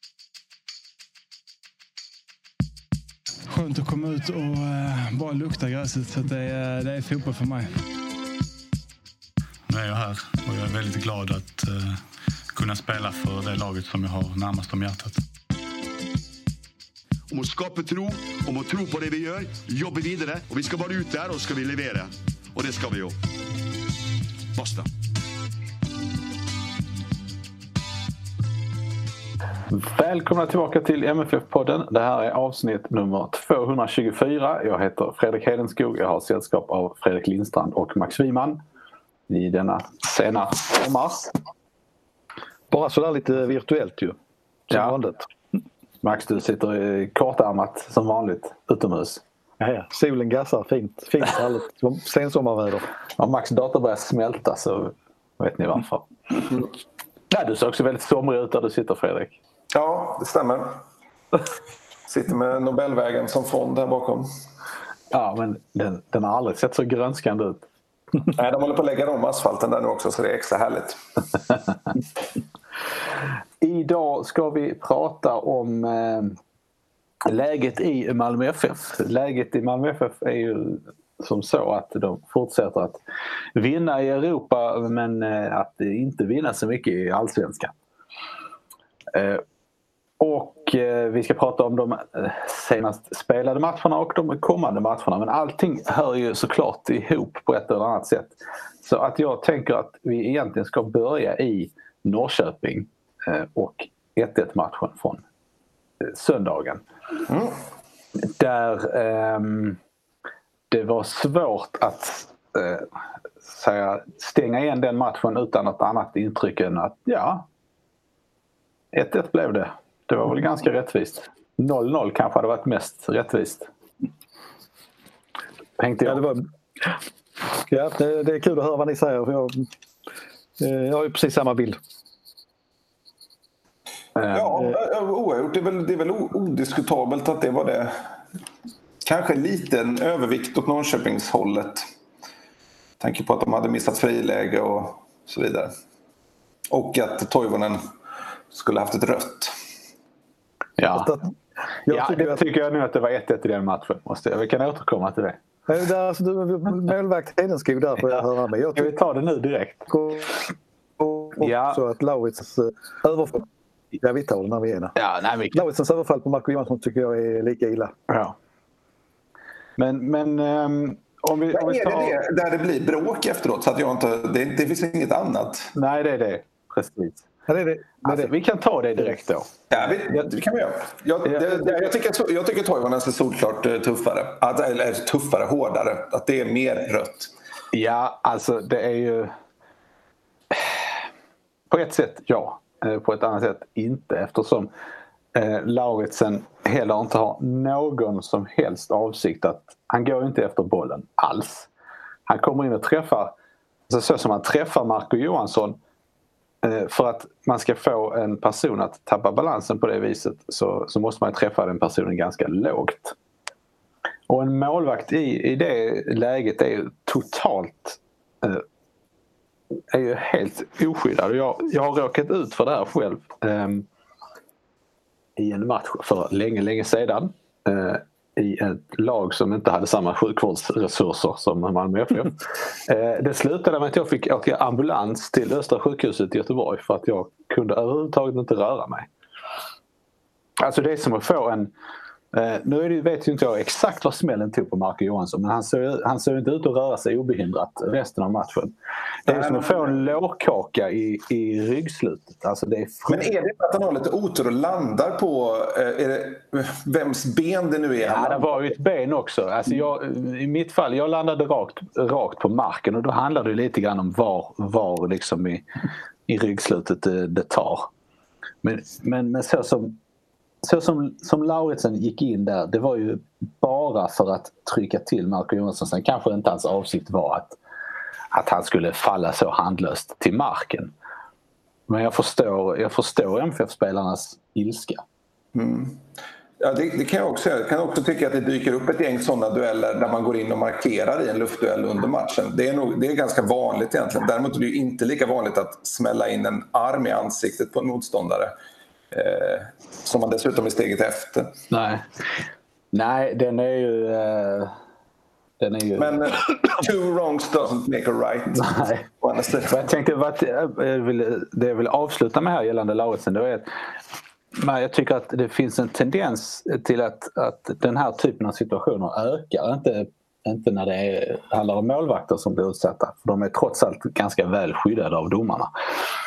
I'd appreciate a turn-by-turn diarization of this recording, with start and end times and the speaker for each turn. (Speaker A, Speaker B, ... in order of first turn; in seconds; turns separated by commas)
Speaker A: 3.5-7.8, Speaker B: 9.7-12.0, Speaker B: 12.5-15.2, Speaker C: 17.3-23.2, Speaker C: 24.6-24.9, Speaker D: 29.7-38.6, Speaker D: 39.3-41.3, Speaker E: 42.7-45.3, Speaker D: 46.0-49.2, Speaker E: 49.6-52.9, Speaker D: 53.2-56.5, Speaker D: 57.3-59.4, Speaker F: 59.7-60.8, Speaker F: 62.1-64.3, Speaker D: 65.1-67.7, Speaker F: 68.3-71.0, Speaker D: 73.6-76.4, Speaker D: 77.3-83.0, Speaker D: 83.5-87.7, Speaker D: 89.1-89.4, Speaker D: 90.2-105.2, Speaker D: 106.0-106.8, Speaker F: 107.3-107.5, Speaker D: 108.3-109.8, Speaker D: 110.7-112.9, Speaker D: 113.5-117.5, Speaker D: 118.9-123.7, Speaker D: 125.8-126.2, Speaker E: 126.0-126.9, Speaker E: 127.7-129.7, Speaker E: 130.6-131.8, Speaker D: 134.2-134.7, Speaker F: 134.3-138.0, Speaker F: 139.0-141.9, Speaker F: 143.0-145.7, Speaker F: 146.7-147.8, Speaker F: 148.5-149.5, Speaker D: 150.8-151.1, Speaker E: 150.9-151.3, Speaker E: 151.9-152.4, Speaker D: 151.9-155.4, Speaker E: 155.7-159.0, Speaker D: 158.0-159.9, Speaker E: 159.9-160.4, Speaker E: 161.0-164.9, Speaker D: 161.4-161.8, Speaker D: 165.0-165.6, Speaker E: 165.5-167.9, Speaker D: 168.1-168.3, Speaker D: 169.8-172.2, Speaker F: 171.5-175.7, Speaker D: 175.7-177.2, Speaker E: 177.5-178.3, Speaker D: 178.0-179.5, Speaker F: 179.7-187.3, Speaker E: 181.3-181.7, Speaker D: 187.7-189.3, Speaker D: 190.5-190.9, Speaker D: 191.7-194.7, Speaker D: 195.3-201.7, Speaker D: 202.3-203.3, Speaker D: 203.9-205.8, Speaker D: 206.6-213.2, Speaker D: 214.3-218.6, Speaker D: 219.9-223.9, Speaker D: 225.4-239.1, Speaker D: 240.6-241.7, Speaker D: 242.3-248.7, Speaker D: 249.3-253.3, Speaker F: 249.3-250.0, Speaker F: 253.1-258.5, Speaker D: 258.1-265.7, Speaker D: 266.3-267.9, Speaker D: 268.6-270.0, Speaker D: 270.6-277.6, Speaker D: 278.3-280.9, Speaker D: 281.9-285.0, Speaker F: 285.5-286.0, Speaker F: 286.6-298.6, Speaker F: 299.1-301.6, Speaker D: 301.7-302.1, Speaker D: 302.9-304.8, Speaker D: 305.6-306.2, Speaker F: 306.0-309.8, Speaker D: 308.6-309.1, Speaker D: 309.7-313.7, Speaker D: 314.6-325.7